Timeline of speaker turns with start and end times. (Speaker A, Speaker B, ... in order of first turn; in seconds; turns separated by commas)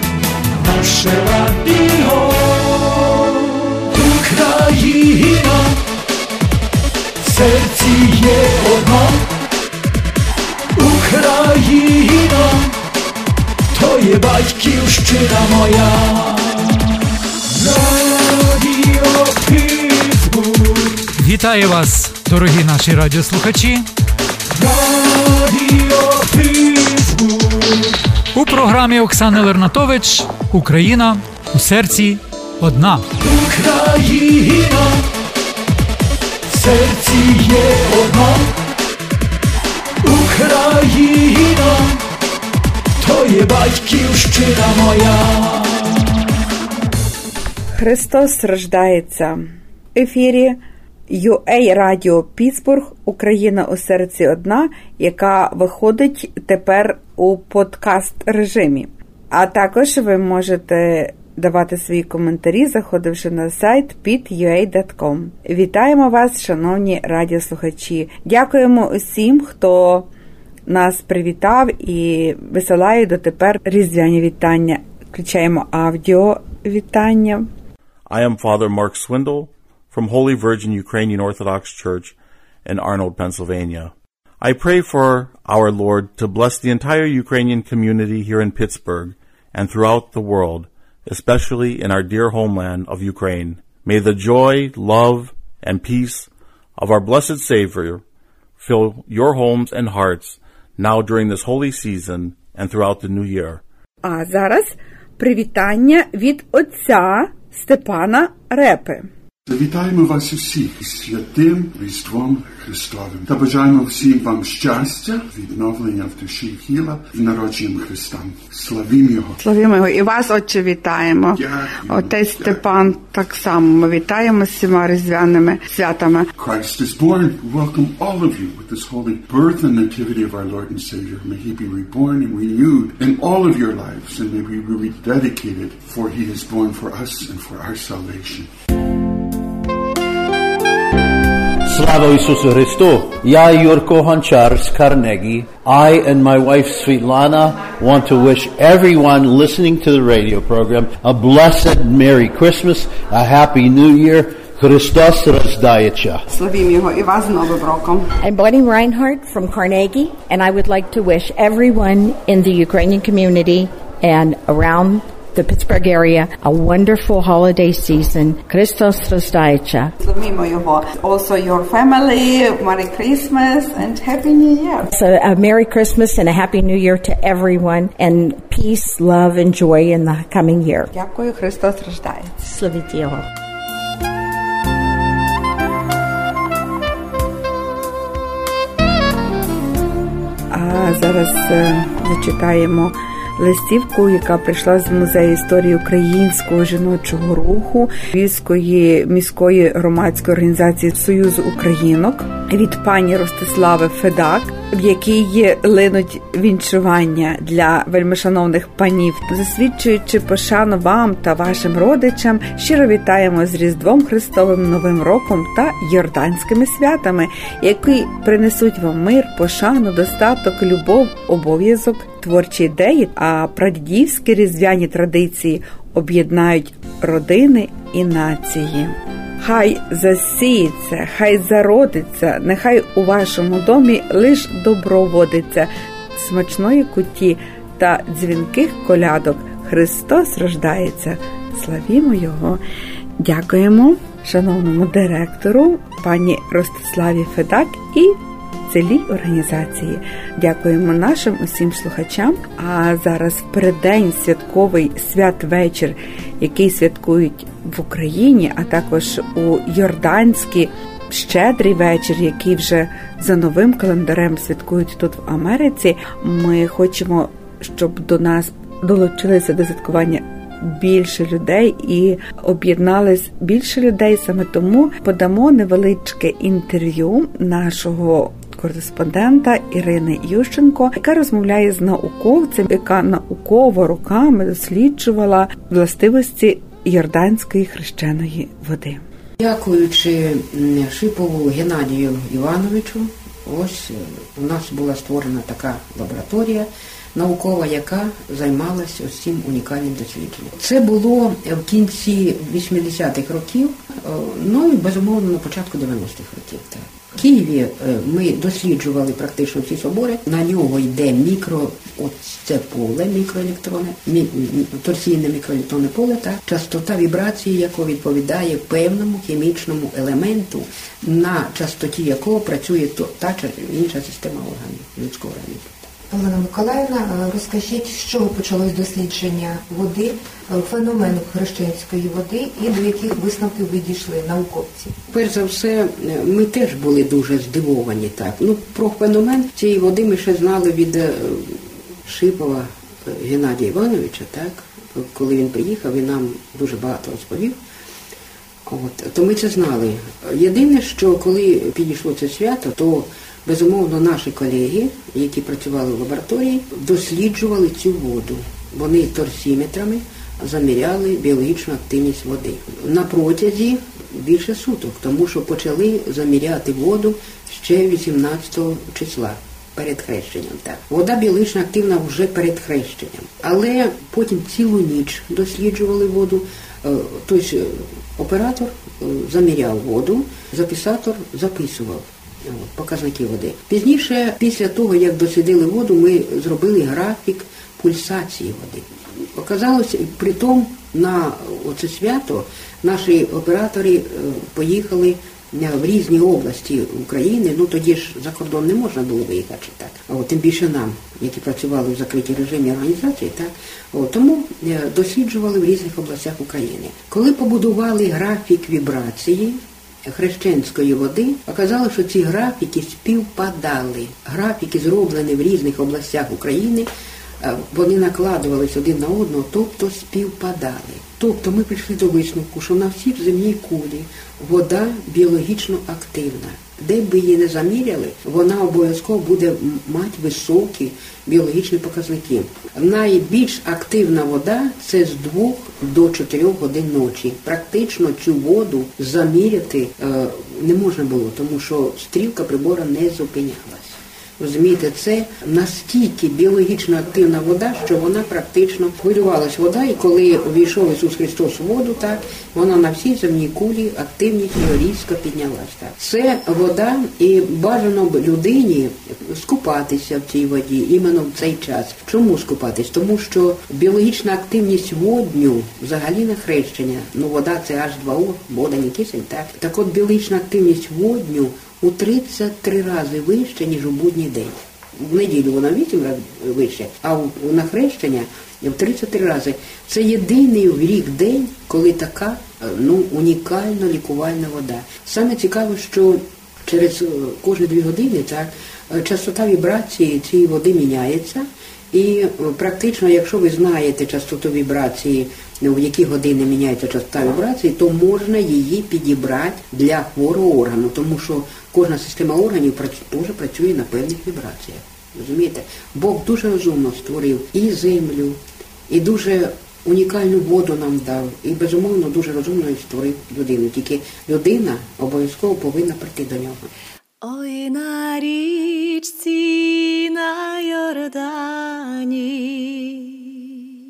Speaker A: 0.6-5.8, Speaker A: 7.2-9.2, Speaker A: 10.8-12.8, Speaker A: 13.7-21.2, Speaker B: 21.2-23.9, Speaker A: 24.5-28.0, Speaker B: 28.3-33.1, Speaker A: 33.1-35.0, Speaker A: 36.5-38.5, Speaker A: 40.0-42.0, Speaker A: 43.0-46.2, Speaker C: 47.8-49.4, Speaker C: 49.9-70.1, Speaker C: 70.7-77.5, Speaker D: 78.1-98.0, Speaker D: 98.6-103.6, Speaker C: 104.0-109.0, Speaker E: 109.5-119.4, Speaker C: 119.4-121.4, Speaker E: 121.3-122.7, Speaker C: 121.9-126.3, Speaker E: 126.4-138.5, Speaker F: 141.7-156.2, Speaker C: 156.5-157.9, Speaker G: 158.2-169.9, Speaker C: 170.0-174.9, Speaker G: 174.9-180.9, Speaker C: 180.9-182.4, Speaker G: 182.4-183.2, Speaker C: 190.5-242.6, Speaker C: 243.2-248.2, Speaker C: 248.7-289.0, Speaker H: 289.4-325.7, Speaker I: 326.1-334.9, Speaker H: 335.1-347.6, Speaker H: 348.6-416.9, Speaker H: 417.4-516.7, Speaker J: 517.2-523.5